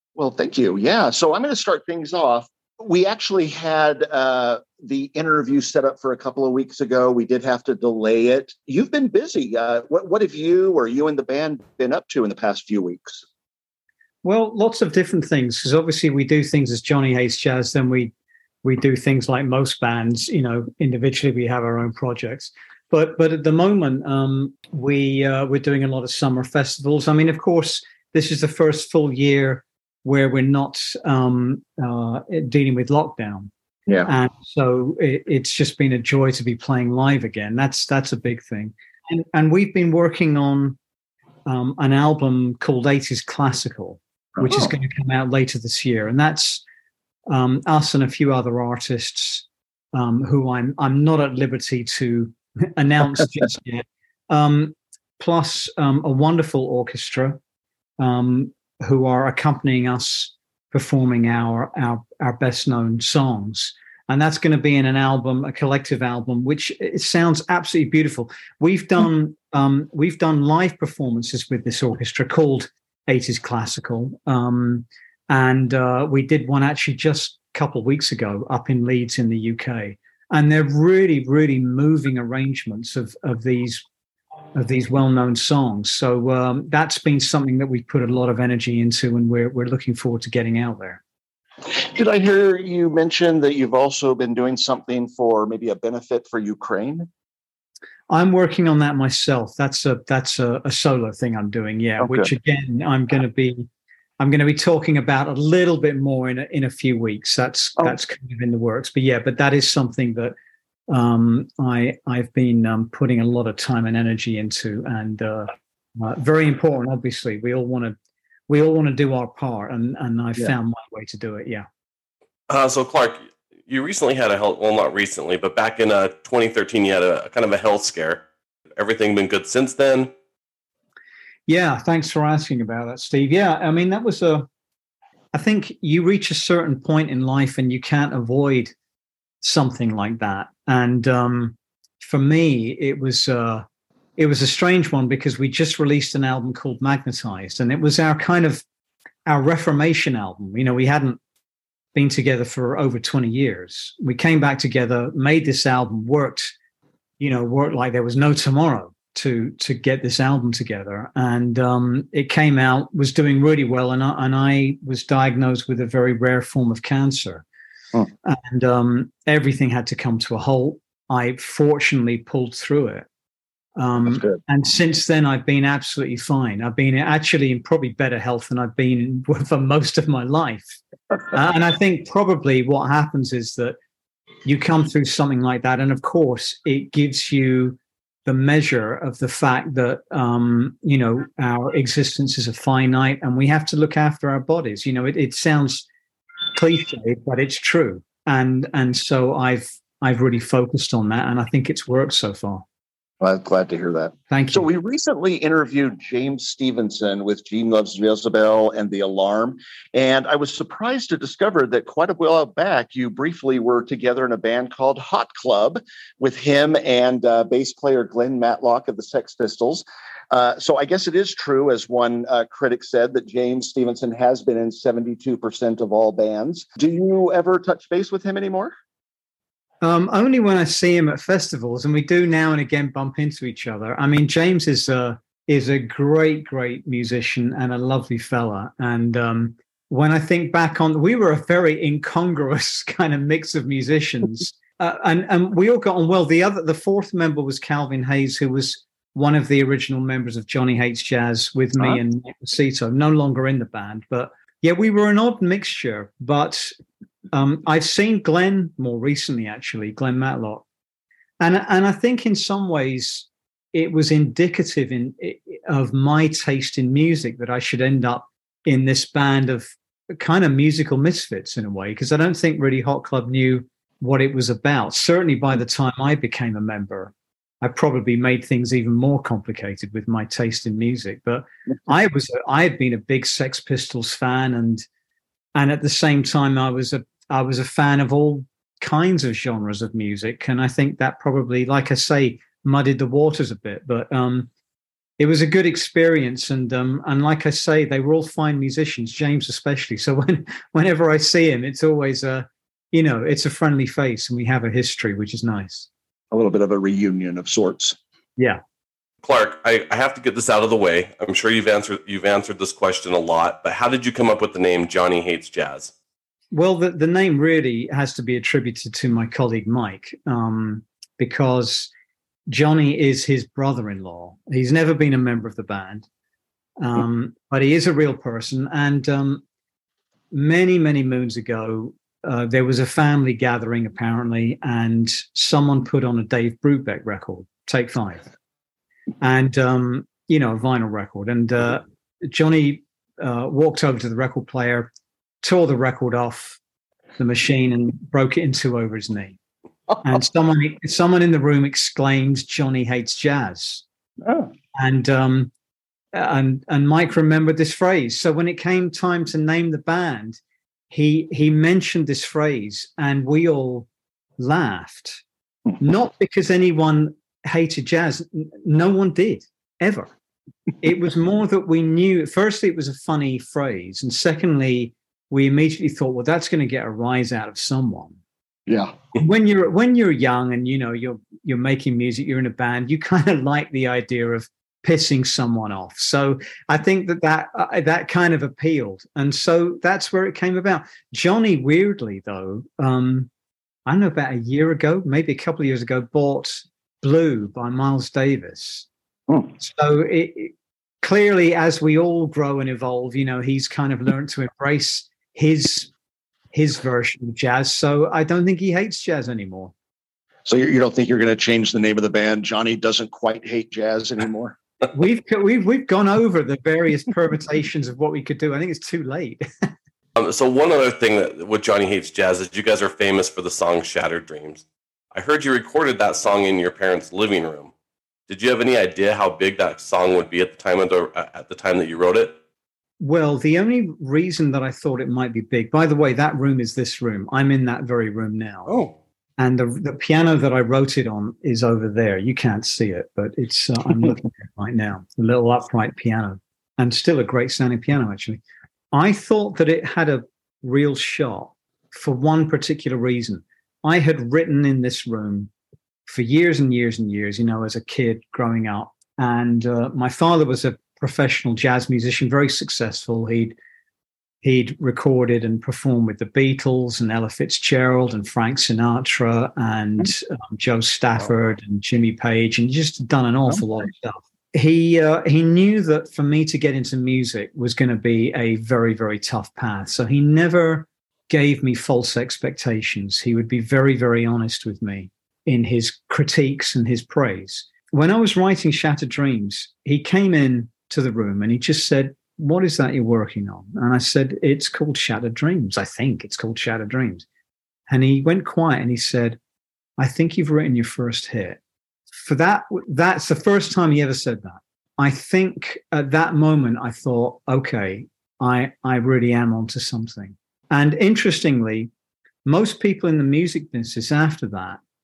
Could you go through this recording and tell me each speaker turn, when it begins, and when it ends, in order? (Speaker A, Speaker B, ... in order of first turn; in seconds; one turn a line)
Speaker A: 0.1-13.2
Speaker B: 14.2-18.1
Speaker B: 18.6-33.5
Speaker B: 34.0-40.8
Speaker B: 41.5-46.6
Speaker A: 44.4-44.7
Speaker B: 47.3-57.4
Speaker B: 58.0-83.8
Speaker B: 84.5-91.0
Speaker A: 91.7-97.1
Speaker B: 98.1-103.7
Speaker A: 102.0-102.3
Speaker B: 104.2-110.3
Speaker B: 110.9-118.0
Speaker B: 118.5-121.7
Speaker C: 122.5-128.2
Speaker C: 128.8-130.1
Speaker B: 131.5-134.5
Speaker B: 135.3-138.7
Speaker B: 139.4-143.7
Speaker B: 144.2-148.6
Speaker B: 149.2-151.2
Speaker B: 151.9-156.5
Speaker B: 157.2-167.4
Speaker B: 168.2-173.1
Speaker B: 173.8-180.8
Speaker A: 174.1-174.4
Speaker B: 181.3-183.8
Speaker B: 184.4-195.8
Speaker B: 196.5-202.6
Speaker A: 203.2-228.7
Speaker B: 204.3-204.7
Speaker B: 229.8-256.7
Speaker B: 257.3-260.6
Speaker B: 261.4-284.8
Speaker B: 285.5-294.5
Speaker B: 295.2-305.9
Speaker A: 306.3-308.0
Speaker C: 309.2-315.9
Speaker B: 316.5-321.9
Speaker B: 322.5-326.1
Speaker B: 326.8-329.4
Speaker B: 330.3-338.3
Speaker B: 339.2-344.9
Speaker B: 345.4-346.6
Speaker B: 347.2-349.4
Speaker B: 350.0-353.8
Speaker A: 354.2-354.5
Speaker B: 354.7-355.5
Speaker B: 356.1-360.4
Speaker B: 360.9-363.9
Speaker B: 364.4-365.2
Speaker B: 365.8-370.1
Speaker B: 370.8-378.2
Speaker A: 378.7-379.0
Speaker B: 379.1-393.3
Speaker B: 393.9-398.9
Speaker B: 399.6-405.9
Speaker B: 406.5-409.7
Speaker A: 410.4-414.6
Speaker B: 414.9-419.5
Speaker C: 420.1-427.7
Speaker C: 428.3-432.4
Speaker B: 433.0-438.7
Speaker B: 439.4-448.4
Speaker B: 448.9-455.5
Speaker B: 456.1-463.6
Speaker B: 464.4-497.2
Speaker B: 497.9-499.4
Speaker B: 500.0-501.6
Speaker B: 502.1-511.9
Speaker B: 512.4-514.8